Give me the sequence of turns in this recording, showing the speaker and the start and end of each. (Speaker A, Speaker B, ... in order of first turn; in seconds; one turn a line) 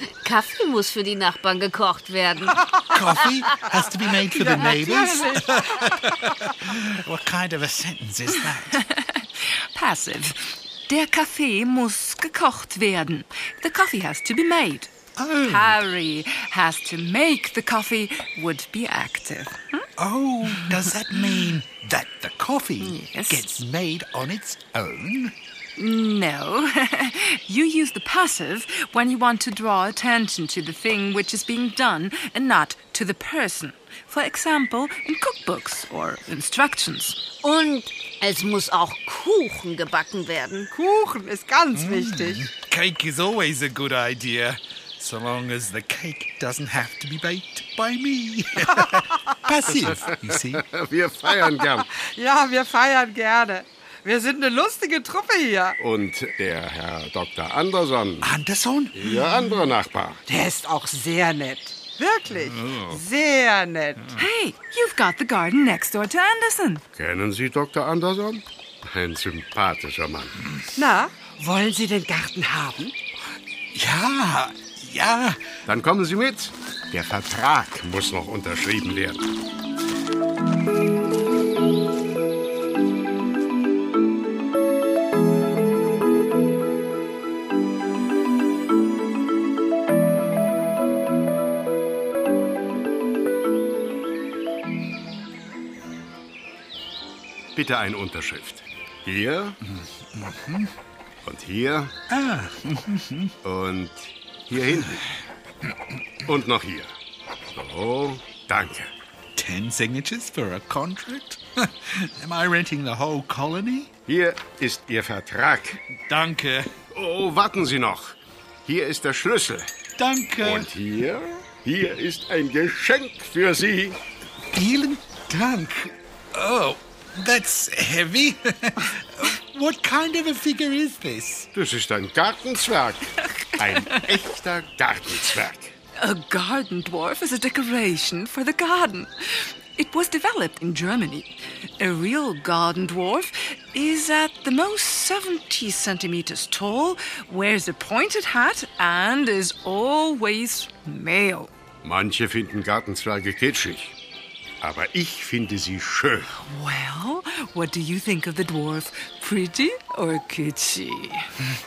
Speaker A: 0.2-2.5
Speaker B: 2.9-8.8
Speaker C: 4.4-5.1
Speaker D: 8.7-14.9
Speaker B: 15.2-15.8
Speaker D: 15.4-19.8
Speaker B: 20.0-25.3
Speaker D: 22.8-23.6
Speaker D: 25.8-37.2
Speaker A: 37.4-40.7
Speaker C: 40.7-42.4
Speaker B: 41.7-50.7
Speaker E: 50.7-51.9
Speaker C: 51.9-55.7
Speaker E: 55.8-58.3
Speaker B: 58.2-59.1
Speaker E: 59.0-60.2
Speaker C: 60.3-64.1
Speaker D: 64.1-66.8
Speaker E: 66.9-70.4
Speaker C: 70.8-72.9
Speaker B: 73.7-75.4
Speaker E: 75.7-79.3
Speaker E: 97.5-99.6
Speaker B: 99.8-100.7
Speaker E: 101.2-101.9
Speaker B: 102.1-103.3
Speaker E: 103.4-105.0
Speaker E: 106.2-106.9
Speaker E: 107.5-108.9
Speaker B: 109.3-113.9
Speaker E: 114.1-115.8
Speaker B: 116.0-116.7
Speaker E: 116.9-119.7
Speaker B: 120.0-120.7
Speaker E: 120.4-124.0
Speaker B: 124.5-131.5
Speaker E: 131.5-135.7
Speaker D: 136.0-151.5
Speaker E: 151.8-153.9
Speaker E: 154.6-156.3
Speaker D: 156.3-161.3